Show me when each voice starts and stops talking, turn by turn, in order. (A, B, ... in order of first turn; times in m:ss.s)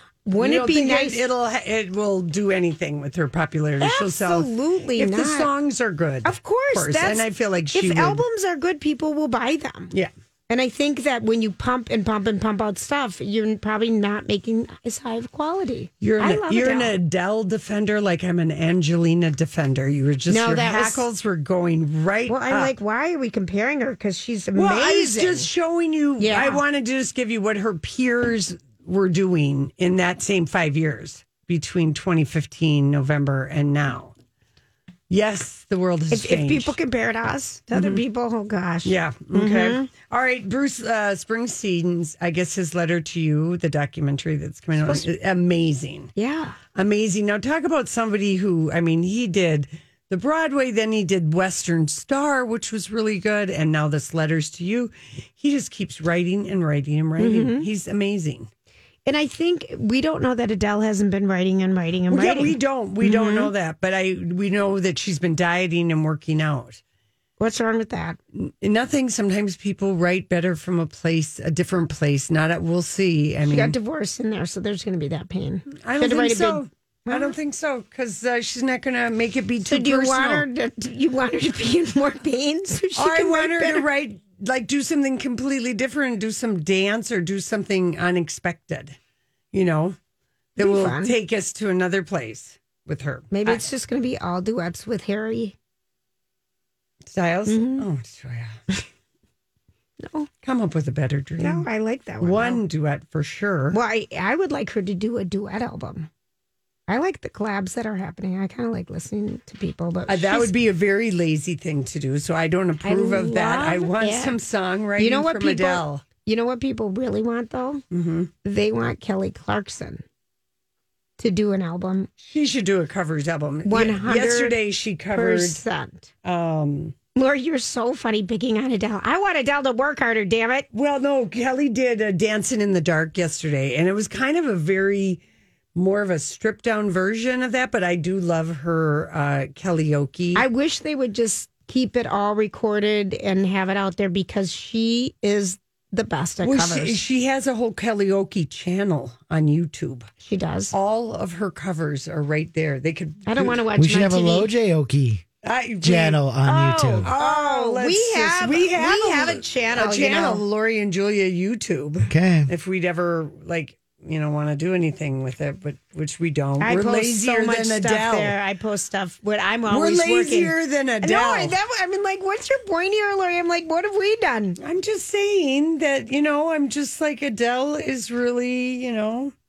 0:00.2-0:01.2 A
0:00.4-0:08.2 B
0:03.8-0:05.5 A
0:06.2-0:09.9 A
0:10.5-0:17.0 A
0:16.0-0:22.7 B
0:20.3-0:21.0 A
0:22.3-0:25.5 A
0:24.5-0:34.1 B
0:26.2-0:26.6 A
0:35.1-0:36.8 B
0:36.1-0:39.9 A
0:37.7-0:38.0 B
0:38.8-0:46.1 B
0:46.2-0:46.6 A
0:46.7-0:58.5 B
0:57.2-0:57.7 A
0:59.0-1:03.5 A
1:02.1-1:06.8 B
1:07.4-1:08.2 A
1:08.3-1:13.7 B
1:13.4-1:17.3 A
1:15.7-1:20.4 B
1:19.6-1:23.9 A
1:23.0-1:29.0 B
1:29.5-1:30.0 B
1:30.6-1:33.7 B
1:30.6-1:31.1 A
1:33.3-1:35.6 A
1:37.1-1:38.6 B
1:37.5-1:37.8 A
1:40.0-1:40.3 A
1:40.4-1:41.6 B
1:41.4-1:42.6 A
1:42.2-1:43.8 B
1:43.7-1:46.1 A
1:46.9-1:50.5 A
1:50.1-1:56.0 B
1:52.8-1:54.4 A
1:55.0-1:57.8 A
1:57.9-1:58.3 B
1:58.4-2:00.0 A
2:01.2-2:02.1 A
2:02.2-2:05.6 B
2:03.6-2:04.6 A
2:05.1-2:06.1 A
2:06.2-2:06.9 B
2:07.1-2:10.7 A
2:10.7-2:15.2 B
2:15.7-2:20.4 B
2:20.3-2:27.0 A
2:26.4-2:30.1 B
2:30.2-2:30.7 A
2:30.7-2:33.6 B
2:33.2-2:34.5 A
2:33.8-2:35.2 C
2:35.4-2:36.2 B
2:35.8-2:37.1 C
2:36.4-2:40.4 A
2:37.0-2:48.4 B
2:42.0-2:42.5 C
2:46.6-2:54.6 A
2:49.7-2:51.6 B
2:54.6-2:59.3 B